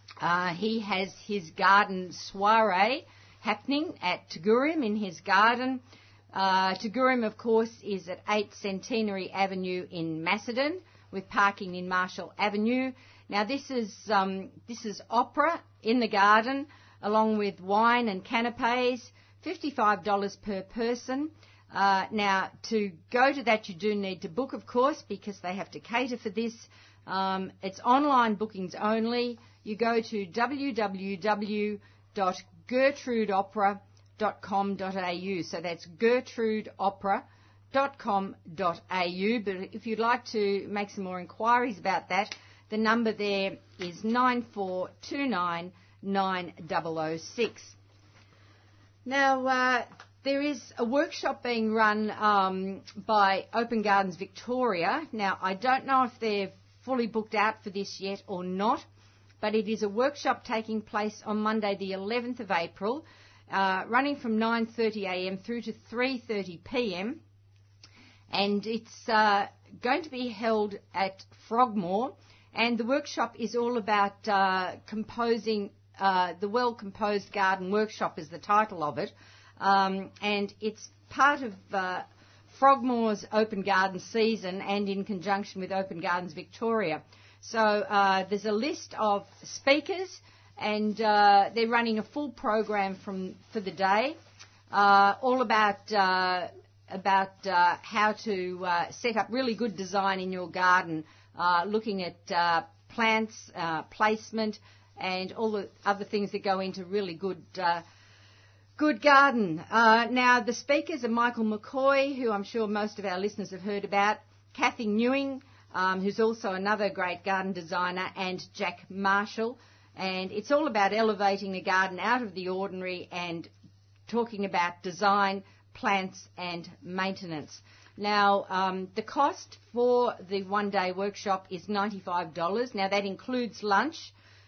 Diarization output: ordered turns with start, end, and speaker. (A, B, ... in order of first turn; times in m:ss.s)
0:00.2-0:47.8 A
0:49.0-0:58.8 A
0:59.4-1:07.2 A
1:08.3-1:34.2 A
1:34.7-1:47.8 A
1:48.8-2:03.5 A
2:04.1-2:14.1 A